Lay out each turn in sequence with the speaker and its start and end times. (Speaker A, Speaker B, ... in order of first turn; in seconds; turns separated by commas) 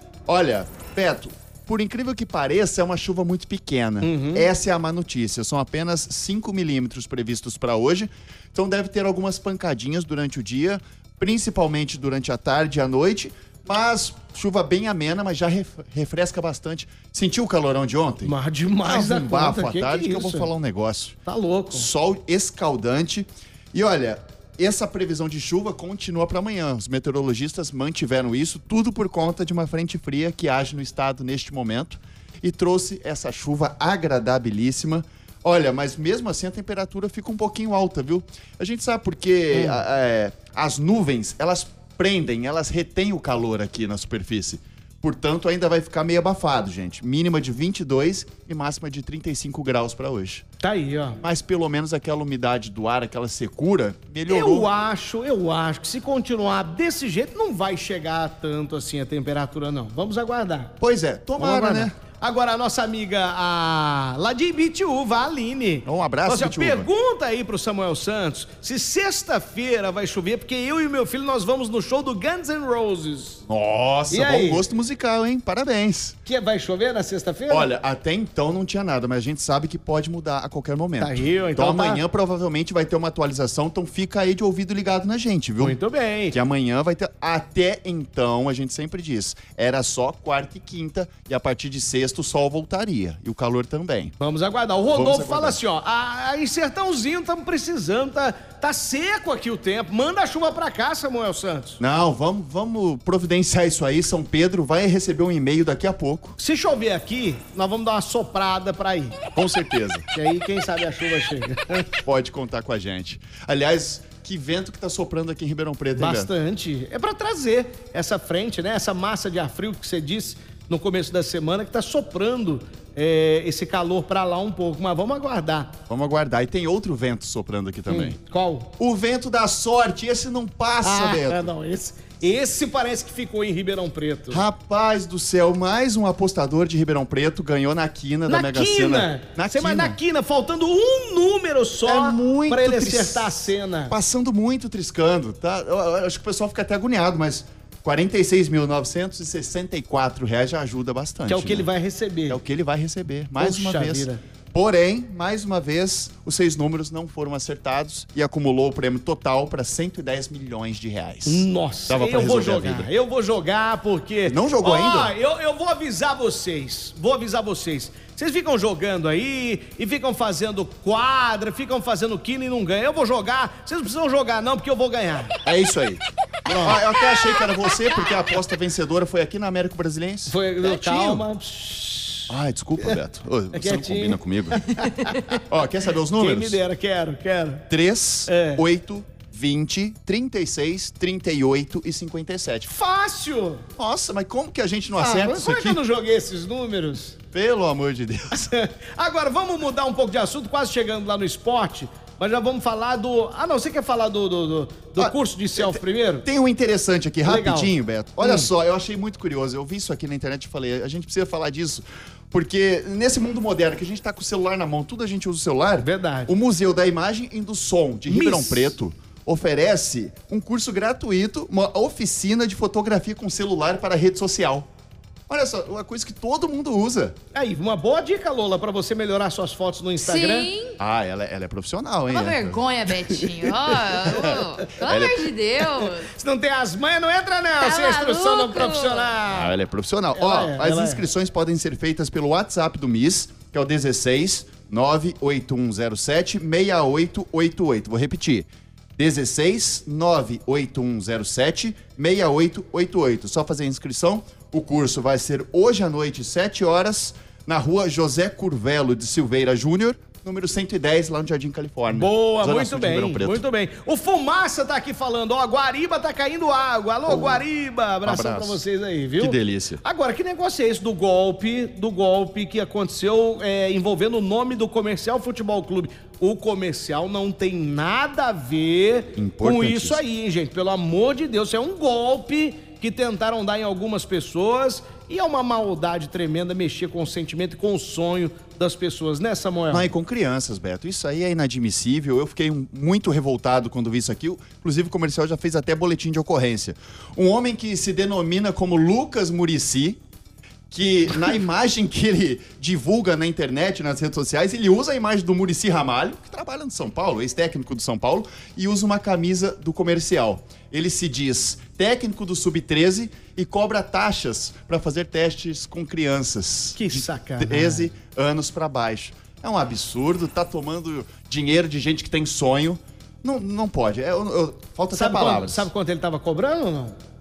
Speaker A: 0.3-21.2, Speaker B: 4.0-4.5, Speaker B: 18.2-20.5, Speaker B: 21.2-21.9, Speaker A: 21.7-50.4, Speaker B: 39.5-39.8, Speaker B: 50.6-51.2, Speaker A: 51.2-54.7, Speaker B: 54.3-60.7, Speaker A: 60.8-61.9, Speaker B: 61.4-73.4, Speaker A: 65.8-66.9, Speaker A: 73.5-76.2, Speaker B: 74.1-74.6, Speaker B: 76.2-77.7, Speaker A: 77.5-85.8, Speaker B: 81.0-82.0, Speaker B: 85.6-86.4, Speaker A: 86.3-94.1, Speaker B: 94.2-101.8, Speaker A: 94.9-95.6, Speaker A: 101.8-106.4, Speaker B: 106.4-109.2, Speaker A: 109.3-110.0, Speaker B: 110.1-111.9, Speaker A: 112.0-116.3, Speaker B: 116.0-125.7, Speaker A: 125.9-128.2, Speaker B: 127.9-128.7, Speaker A: 128.8-131.5, Speaker B: 130.8-134.4, Speaker A: 134.3-140.0, Speaker B: 138.3-143.9, Speaker A: 141.8-143.3, Speaker A: 143.9-151.7, Speaker B: 151.3-152.4, Speaker A: 152.3-162.9, Speaker B: 153.4-154.2, Speaker B: 161.2-175.3, Speaker A: 164.2-165.1, Speaker A: 175.4-181.2, Speaker B: 176.5-176.8, Speaker B: 180.3-182.3, Speaker A: 182.3-186.6, Speaker B: 183.5-185.4, Speaker B: 186.2-187.7, Speaker A: 187.7-192.7, Speaker B: 188.3-188.6, Speaker B: 192.7-193.7, Speaker A: 193.8-195.8, Speaker B: 195.0-197.2, Speaker A: 197.3-198.5, Speaker B: 198.5-206.2, Speaker A: 205.0-224.7, Speaker B: 207.2-208.5, Speaker B: 215.8-216.3, Speaker B: 218.1-218.7, Speaker A: 225.3-227.2, Speaker B: 227.3-230.5, Speaker C: 230.0-230.8, Speaker A: 230.8-232.6, Speaker C: 232.1-236.1, Speaker B: 233.1-234.4, Speaker A: 234.1-235.3, Speaker B: 235.6-239.5, Speaker C: 237.6-239.1, Speaker A: 239.3-263.4, Speaker B: 240.1-241.1, Speaker B: 261.9-289.9, Speaker A: 267.1-267.4, Speaker A: 268.0-268.6, Speaker A: 269.2-269.8, Speaker A: 279.1-280.0, Speaker A: 289.7-300.0, Speaker A: 300.7-325.7, Speaker B: 316.8-317.9, Speaker B: 324.9-327.0